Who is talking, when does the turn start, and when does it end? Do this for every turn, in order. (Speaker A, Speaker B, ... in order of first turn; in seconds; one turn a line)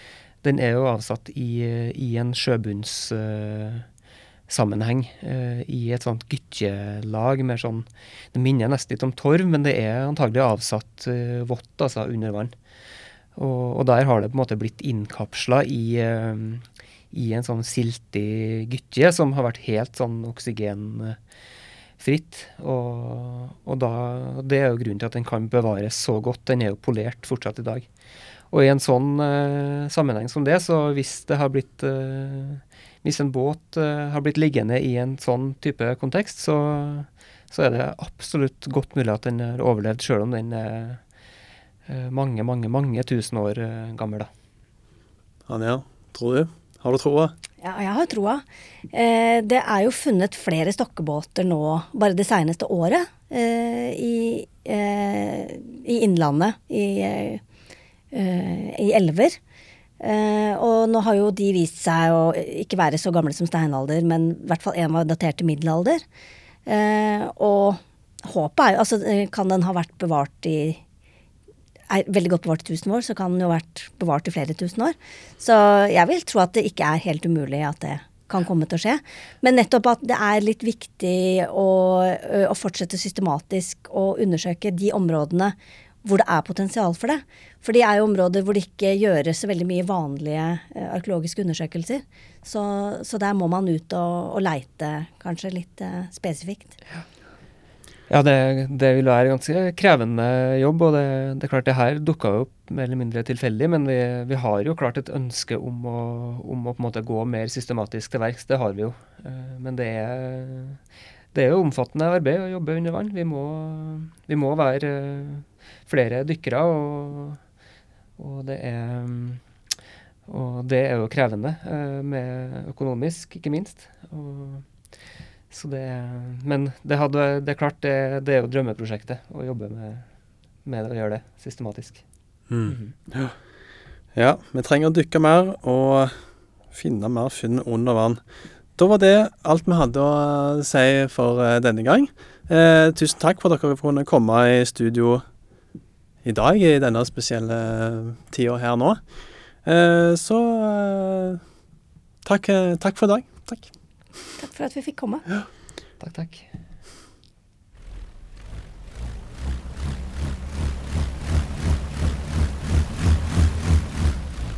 Speaker A: 0.4-3.9
Speaker A: 4.5-12.5
Speaker A: 13.3-21.2
Speaker A: 22.0-27.9
Speaker A: 28.5-41.0
Speaker A: 41.9-44.3
Speaker B: 45.5-47.3
Speaker C: 47.6-57.4
Speaker C: 58.1-59.4
Speaker C: 60.0-66.0
Speaker C: 66.7-70.8
Speaker C: 71.9-96.8
Speaker A: 98.1-110.8
Speaker A: 111.3-117.4
Speaker A: 118.2-119.4
Speaker A: 120.3-124.6
Speaker A: 125.5-130.1
Speaker A: 130.6-132.0
Speaker B: 132.5-133.3
Speaker A: 132.7-132.9
Speaker B: 134.1-136.1
Speaker B: 136.7-138.2
Speaker B: 138.8-145.2
Speaker B: 146.2-149.0
Speaker B: 149.6-151.4
Speaker B: 152.2-153.7
Speaker C: 154.4-155.2
Speaker A: 156.0-156.5